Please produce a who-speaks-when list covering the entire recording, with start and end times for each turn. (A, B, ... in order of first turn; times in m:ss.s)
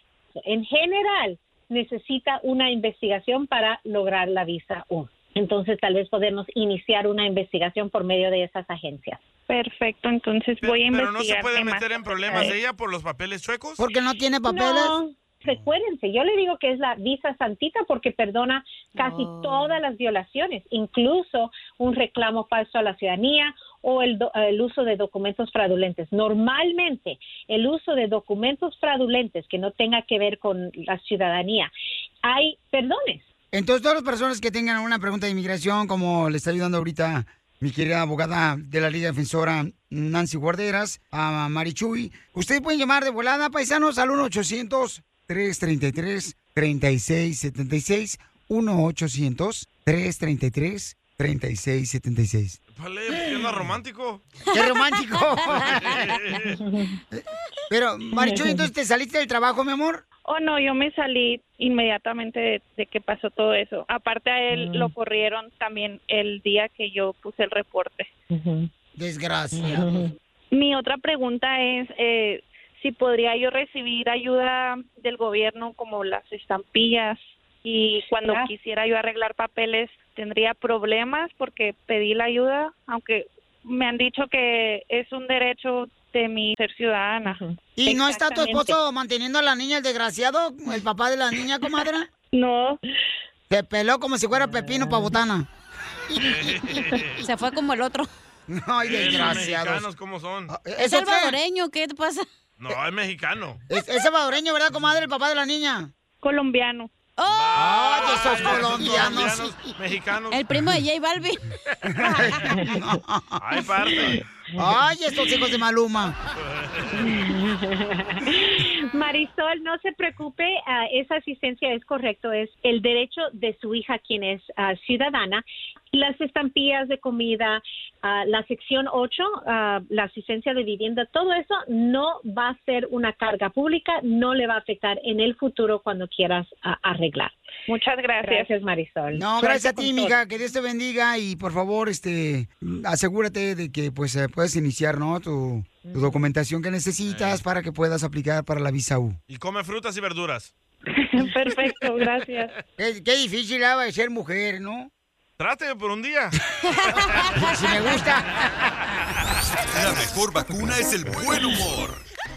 0:00.5-0:09.2 A
0:09.5-0:12.4 B
0:10.6-0:13.8 C
0:13.8-0:15.0 D
0:14.5-0:31.7 A
0:19.0-0:19.8 E
0:32.2-0:33.2 A
0:33.5-0:52.6 D
0:52.8-0:54.2 C
0:54.5-0:55.2 E
0:54.5-0:56.3 D
0:55.5-0:56.6 C
0:57.1-1:00.0 D
0:58.2-0:58.6 A
1:00.3-1:08.1 B
1:04.5-1:04.9 A
1:08.3-1:08.7 A
1:09.0-1:10.1 D
1:09.6-1:10.1 A
1:10.5-1:27.4 B
1:18.2-1:18.5 A
1:27.3-1:28.8 A
1:27.8-1:32.1 D
1:32.3-1:32.8 B
1:33.5-1:35.5 D
1:34.4-1:35.1 A
1:36.2-1:37.2 C
1:37.2-1:38.1 E
1:38.5-1:39.9 D
1:38.8-1:40.5 C
1:40.5-1:41.4 D
1:40.8-1:42.2 E
1:42.6-1:43.6 C
1:43.7-1:45.9 D
1:46.2-1:46.9 B
1:47.2-1:49.2 E
1:47.3-1:50.5 C
1:47.6-1:49.6 D
1:50.3-1:51.5 E
1:51.9-1:53.4 D
1:53.4-1:54.2 C
1:54.6-1:56.2 D
1:56.5-1:57.1 C
1:57.1-2:17.4 A
2:17.7-2:18.5 B
2:18.2-2:20.2 A
2:19.1-2:29.2 D
2:25.8-2:26.2 A
2:27.1-2:27.4 C
2:29.3-2:30.5 C
2:31.0-2:32.5 B
2:32.8-2:34.9 D
2:35.4-2:36.4 C
2:36.8-2:37.3 E
2:37.4-2:38.7 D
2:39.7-2:42.0 F